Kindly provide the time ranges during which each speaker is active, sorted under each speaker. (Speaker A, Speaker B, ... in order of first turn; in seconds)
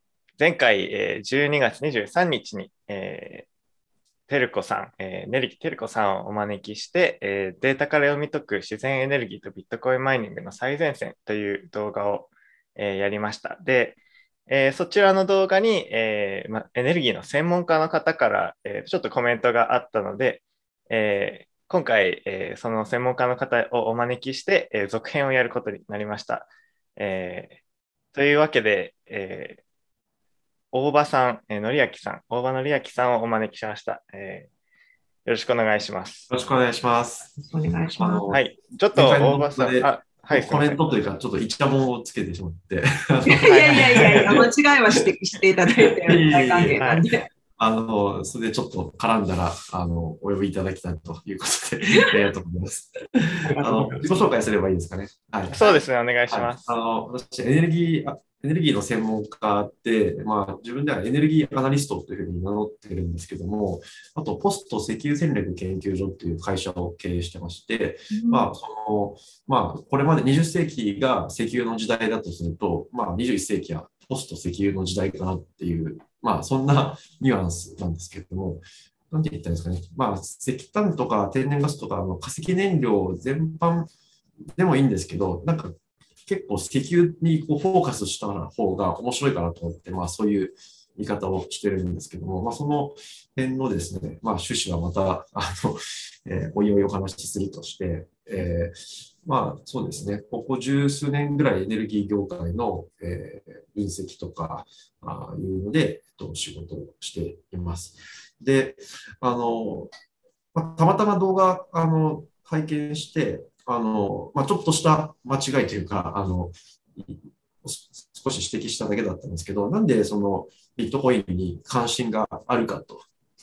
Speaker A: 0.4-3.5, 4.3-27.6, 28.1-29.6, 30.7-34.5, 35.3-36.3, 38.3-40.8, 43.4-44.4, 46.8-47.0, 55.5-56.6
Speaker B: 36.3-37.3, 38.0-38.4, 38.9-44.5, 45.9-46.8, 47.6-53.1, 53.6-55.6, 56.3-83.9, 84.6-109.9, 110.5-123.0
Speaker C: 37.4-38.3, 43.2-47.3, 53.4-54.2, 68.1-68.5